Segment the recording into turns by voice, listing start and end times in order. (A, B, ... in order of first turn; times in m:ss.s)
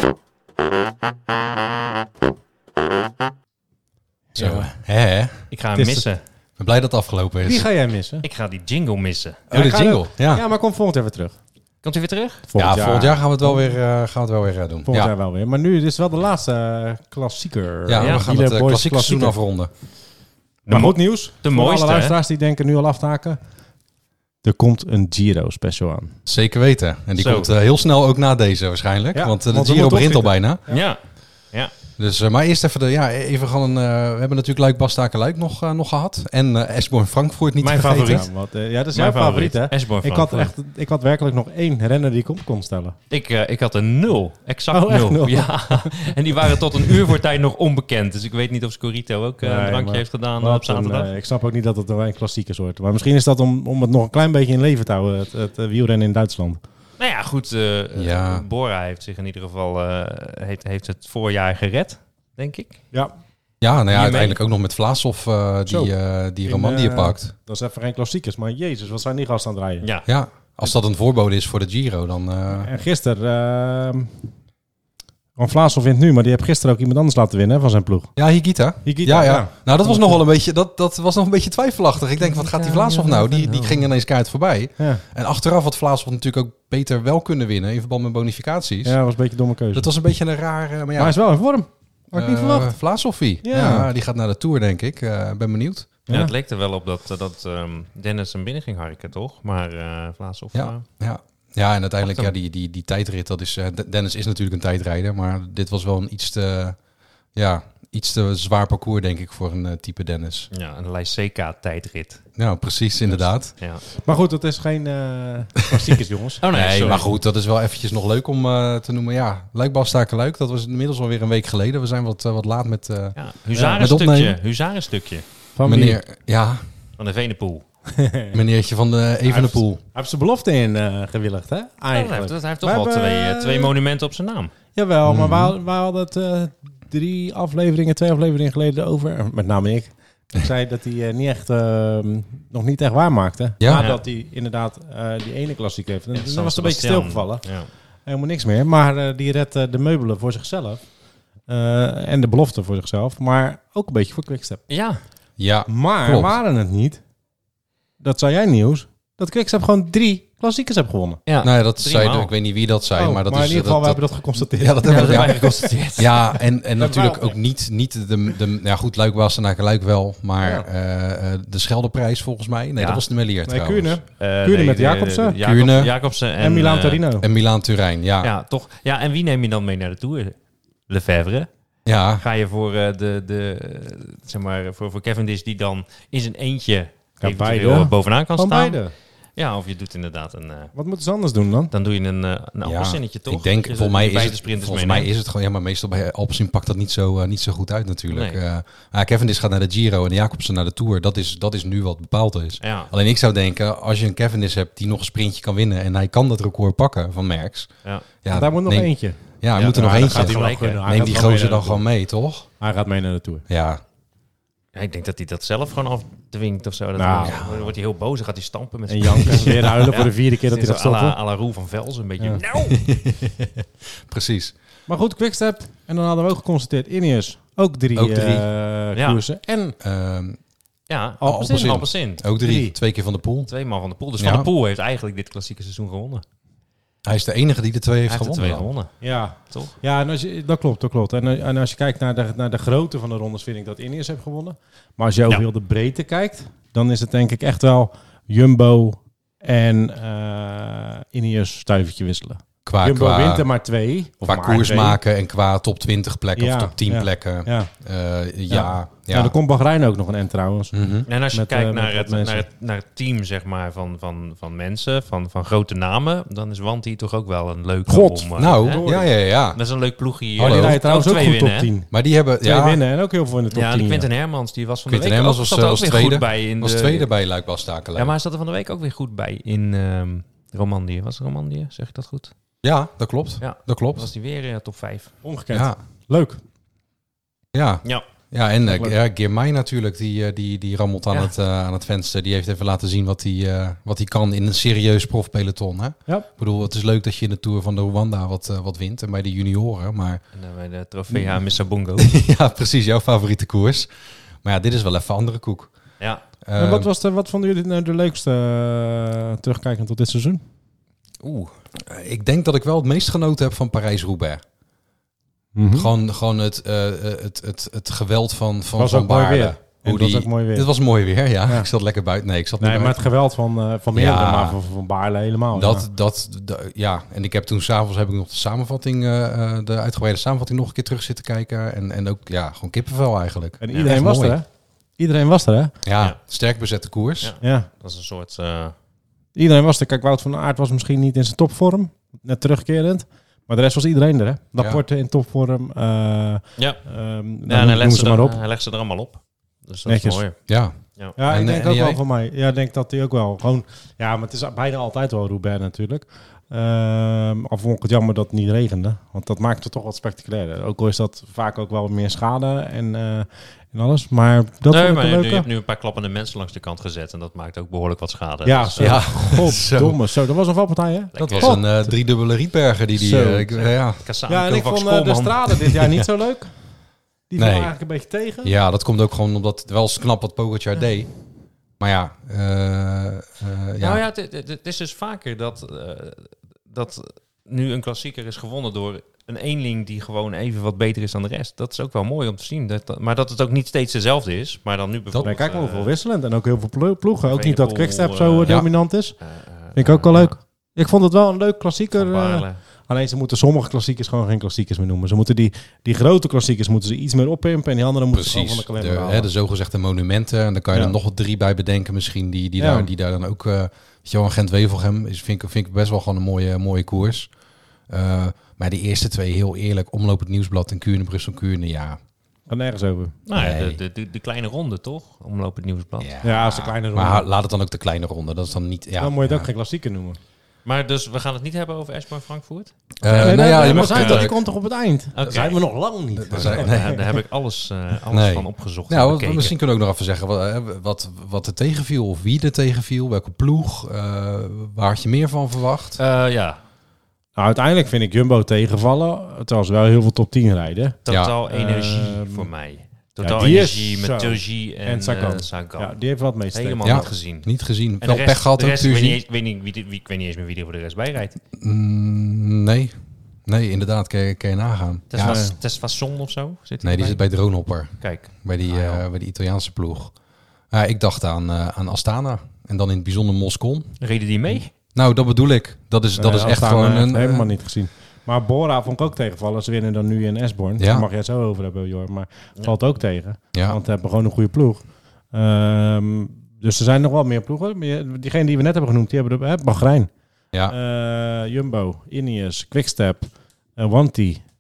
0:04.3-0:04.7 A
0:04.4-0:05.4 B
0:05.5-0:06.2 C
0:05.7-0:06.1 A
0:06.6-0:07.7 B
0:07.4-0:08.2 A
0:08.2-0:09.4 C
0:09.5-0:10.4 B
0:09.5-0:11.4 A
0:11.8-0:12.5 C
0:12.5-0:13.7 A
0:12.6-0:15.1 B
0:14.8-0:19.4 A
0:17.9-0:19.7 B
0:18.0-0:18.3 C
0:20.7-0:22.2 C
0:20.7-0:23.4 A
0:24.4-0:26.1 A
0:26.3-0:30.6 B
0:27.2-0:27.5 C
0:29.1-0:30.8 A
0:30.7-0:31.0 C
0:32.0-0:38.2 B
0:37.6-0:43.0 A
0:37.8-0:38.3 C
0:38.9-0:40.5 C
0:43.1-0:51.1 C
0:44.7-0:46.0 A
0:49.4-0:56.6 A
0:57.0-1:02.8 C
0:58.0-0:58.4 B
1:03.6-1:07.3 B
1:03.9-1:04.4 C
1:05.7-1:09.9 A
1:09.8-1:10.1 C
1:10.1-1:12.7 B
1:12.5-1:14.1 A
1:15.4-1:18.1 A
1:18.2-1:29.0 B
1:18.8-1:20.2 A
1:22.2-1:23.9 C
1:28.8-1:29.9 A
1:29.7-1:31.2 B
1:31.0-1:32.8 A
1:32.1-1:35.9 B
1:33.4-1:33.9 A
1:36.1-1:36.3 A
1:36.1-1:40.8 C
1:40.5-1:46.8 B
1:42.0-1:42.3 C
1:47.3-1:50.5 B
1:50.5-1:52.2 C
1:52.4-1:53.6 B
1:53.5-1:53.8 C
1:53.9-1:57.1 A
1:56.4-1:57.1 C
1:56.5-2:03.2 B
2:03.2-2:05.2 C
2:03.5-2:03.8 A
2:03.8-2:04.4 B
2:05.6-2:06.0 A
2:05.6-2:06.6 B
2:07.0-2:07.6 C
2:08.0-2:08.4 A
2:08.3-2:09.8 B
2:09.2-2:13.7 A
2:11.9-2:14.5 C
2:14.8-2:27.4 A
2:15.1-2:15.5 B
2:23.6-2:23.9 B
2:23.7-2:24.0 C
2:26.1-2:27.7 C
2:28.1-2:30.8 A
2:31.5-2:34.6 A
2:34.7-2:35.0 C
2:35.4-2:36.4 B
2:35.7-2:37.0 A
2:38.0-2:41.2 A
2:41.2-2:42.3 C
2:41.4-2:54.0 B
2:42.9-2:45.7 A
2:44.8-2:46.4 C
2:46.8-2:47.4 A
2:50.4-2:50.7 A
2:52.8-2:53.0 C
2:53.4-2:55.4 A
2:54.2-2:57.1 C
2:55.4-2:55.9 B
2:56.4-2:57.3 A
2:57.2-2:58.3 B
2:58.2-3:00.4 C
3:00.9-3:01.5 C
3:01.9-3:02.2 B
3:02.2-3:08.8 C
3:07.2-3:08.9 A
3:09.4-3:10.7 C
3:10.8-3:11.7 A
3:11.7-3:15.1 C
3:12.6-3:27.7 B
3:18.1-3:18.4 C
3:22.6-3:22.9 C
3:28.2-3:32.5 B
3:28.3-3:29.2 A
3:29.6-3:31.4 C
3:29.7-3:31.9 A
3:32.6-3:33.4 A
3:33.5-3:33.8 B
3:34.8-3:42.8 C
3:37.0-3:37.6 A
3:37.2-3:37.5 B
3:38.9-3:41.2 A
3:42.6-3:44.5 B
3:44.9-3:49.8 A
3:47.9-3:48.4 B
3:48.9-3:49.2 C
3:49.8-3:50.4 B
3:50.9-3:52.2 C
3:51.2-3:51.9 A
3:51.2-3:53.5 B
3:52.4-3:52.8 A
3:53.5-3:56.2 C
3:54.2-3:54.5 B
3:57.0-3:58.7 B
3:58.1-3:59.8 C
3:59.0-4:15.0 A
4:12.6-4:13.5 B
4:14.2-4:19.3 B
4:16.3-4:17.7 A
4:18.5-4:20.7 A
4:20.7-4:21.1 B
4:21.1-4:28.8 C
4:21.3-4:22.5 A
4:27.9-4:29.1 A
4:28.3-4:29.6 B
4:29.4-4:31.7 C
4:30.4-4:34.1 A
4:30.4-4:30.8 B
4:31.9-4:32.8 B
4:33.5-4:37.1 C
4:34.9-4:38.1 B
4:34.9-4:35.2 A
4:37.9-4:42.3 C
4:42.6-4:44.1 B
4:43.4-4:45.1 C
4:45.2-4:46.4 A
4:45.5-4:45.8 B
4:47.5-5:00.2 B
4:48.7-4:49.0 A
5:00.3-5:02.1 C
5:02.0-5:03.9 B
5:04.4-5:05.7 B
5:06.4-5:06.9 B
5:06.6-5:10.4 A
5:11.2-5:11.5 C
5:11.8-5:14.4 B
5:15.5-5:15.9 A
5:15.7-5:23.1 B
5:18.8-5:20.7 A
5:22.6-5:25.9 A
5:23.9-5:24.6 B
5:25.5-5:34.4 B
5:33.6-5:34.4 A
5:33.7-5:34.0 C
5:35.0-5:35.7 A
5:35.8-5:37.3 B
5:37.2-5:38.7 C
5:37.4-5:37.7 A
5:39.4-5:48.4 A
5:47.4-5:50.4 C
5:49.8-5:50.2 A
5:50.5-5:52.0 B
5:51.2-6:05.5 A
6:04.7-6:09.2 C
6:08.4-6:12.0 A
6:08.8-6:10.0 B
6:11.1-6:11.6 C
6:11.2-6:14.1 B
6:12.9-6:13.6 A
6:13.7-6:15.6 C
6:14.3-6:16.5 A
6:17.3-6:18.5 A
6:17.4-6:17.7 B
6:18.4-6:21.1 B
6:21.8-6:24.0 B
6:23.8-6:35.9 C
6:35.2-6:39.2 A
6:37.2-6:38.7 C
6:39.2-6:40.3 C
6:39.8-6:49.3 A
6:41.9-6:42.6 C
6:48.1-6:57.3 B
6:52.6-6:52.9 A
6:57.9-7:02.0 B
7:02.5-7:03.1 A
7:03.3-7:06.8 C
7:03.4-7:03.8 B
7:06.0-7:06.4 B
7:06.2-7:07.3 A
7:06.9-7:09.5 B
7:09.0-7:10.2 A
7:10.6-7:14.4 C
7:13.0-7:14.3 B
7:13.1-7:17.1 A
7:15.1-7:15.6 C
7:16.1-7:17.0 B
7:16.3-7:19.6 C
7:18.1-7:26.0 B
7:26.0-7:26.6 C
7:27.4-7:32.5 A
7:31.0-7:36.0 C
7:31.1-7:31.3 B
7:33.2-7:37.0 A
7:36.5-7:37.5 C
7:36.8-7:39.2 B
7:38.0-7:41.4 C
7:41.6-7:42.9 B
7:43.4-7:45.5 B
7:45.1-7:49.0 C
7:45.2-7:45.5 A
7:46.8-7:50.1 B
7:50.7-7:54.0 B
7:54.0-7:54.7 C
7:54.9-7:57.5 B
7:56.1-8:10.1 A
8:00.8-8:01.0 B
8:10.7-8:14.4 A